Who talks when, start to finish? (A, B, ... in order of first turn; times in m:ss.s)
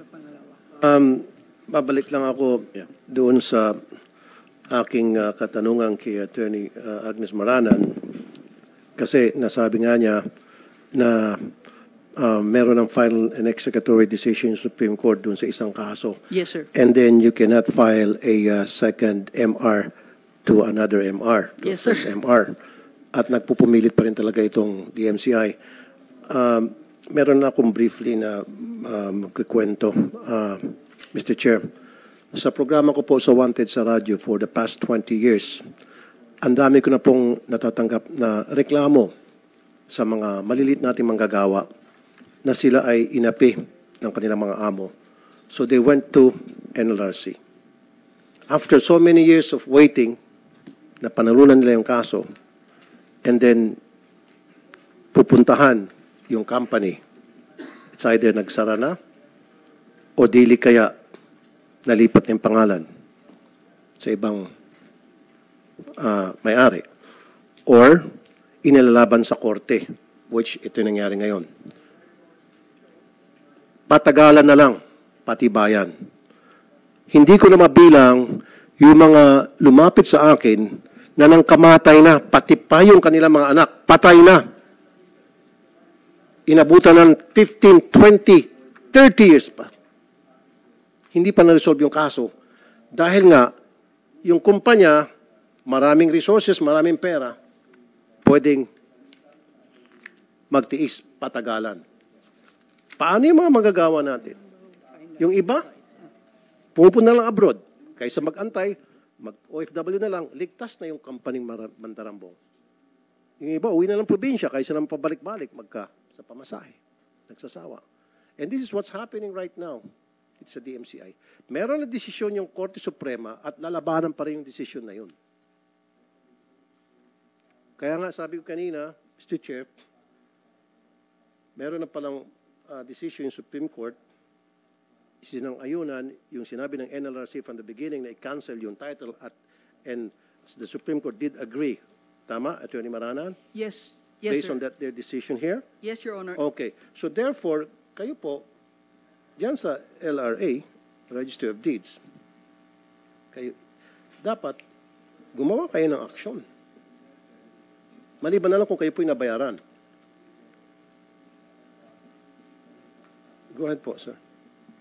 0:00.8-0:03.8 A
0:04.7-0:08.2 A
0:09.0-0:10.2 A
0:10.9-0:11.5 A
0:12.2-0:16.2 A
0:16.3-0:16.7 B
0:16.7-0:19.9 A
0:20.4-0:22.6 A
0:21.6-0:22.1 B
0:23.1-0:25.6 A
0:26.3-0:31.7 A
0:32.3-0:35.6 A
0:36.4-0:39.1 A
0:39.9-0:41.7 A
0:42.4-0:44.9 A
0:45.5-0:47.4 A
0:48.5-0:50.2 A
0:51.0-0:52.3 A
0:53.2-0:53.8 A
0:55.1-0:57.0 A
0:58.0-0:59.0 A
1:00.2-1:00.9 A
1:01.8-1:02.8 A
1:04.0-1:04.5 A
1:06.0-1:06.8 A
1:07.7-1:08.1 A
1:08.6-1:11.5 A
1:13.9-1:15.9 A
1:17.1-1:24.4 A
1:26.5-1:29.7 A
1:31.1-1:32.3 A
1:32.9-1:33.5 A
1:34.2-1:35.1 A
1:35.7-1:37.4 A
1:38.2-1:38.7 A
1:40.5-1:41.8 A
1:43.0-1:44.4 A
1:45.2-1:45.7 A
1:46.8-1:52.4 A
1:53.4-1:56.8 A
1:57.3-1:57.8 A
1:58.4-1:59.8 A
2:00.4-2:05.1 A
2:07.8-2:09.7 A
2:11.6-2:14.0 A
2:15.2-2:23.4 A
2:23.5-2:24.6 B
2:24.3-2:25.6 A
2:25.8-2:26.4 B
2:26.4-2:28.5 A
2:29.4-2:32.0 A
2:34.2-2:34.6 A
2:35.3-2:36.4 A
2:38.2-2:39.6 A
2:43.5-2:44.2 A